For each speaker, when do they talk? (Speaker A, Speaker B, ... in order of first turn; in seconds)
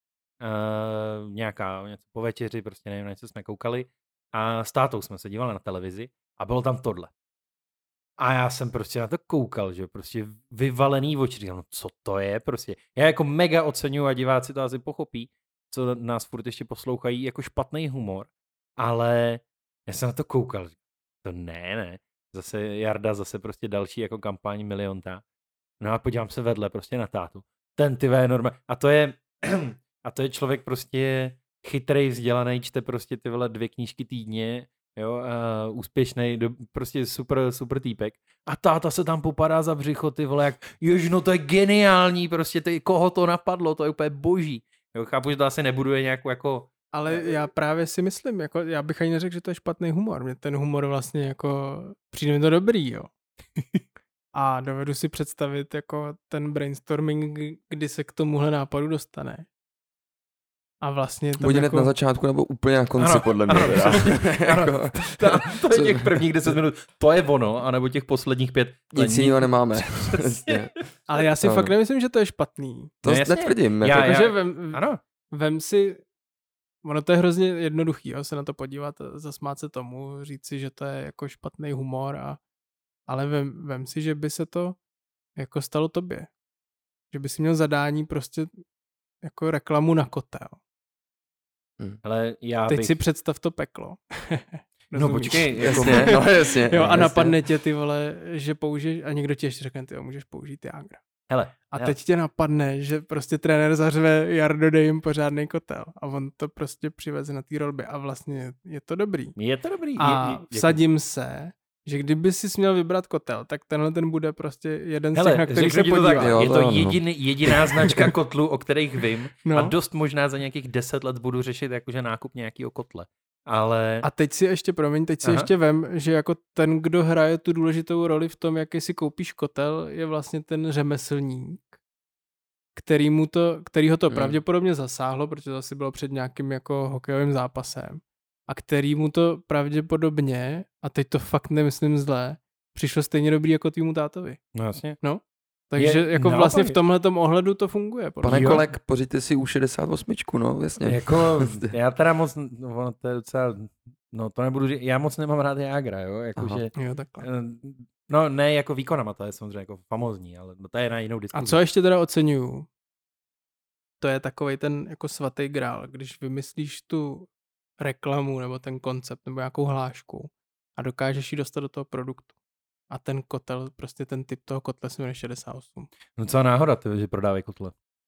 Speaker A: 0.4-7.1, 8.2-25.2, 25.8-47.4, 63.0-70.8, 73.1-75.0, 92.0-93.0, 94.9-97.1, 101.3-102.0, 109.4-110.8, 115.2-124.1, 125.2-125.5, 144.6-145.0, 145.8-146.8, 148.3-148.7, 150.8-161.6, 176.2-177.7
Speaker B: 46.9-53.1, 54.4-59.5, 60.8-61.9, 71.1-72.9, 73.9-76.0, 76.8-82.4, 83.1-84.8, 85.4-86.3, 87.1-88.6, 89.2-90.6, 92.7-101.0, 101.7-109.4, 110.0-116.5, 119.5-119.7, 124.0-131.8, 132.8-144.4, 145.0-148.6, 156.8-157.3, 161.3-162.7, 164.0-172.3, 172.9-175.9
Speaker C: 61.4-66.5, 68.9-70.8, 71.4-71.7, 73.0-74.2, 95.7-97.4, 116.1-117.0, 148.2-151.7, 156.4-156.6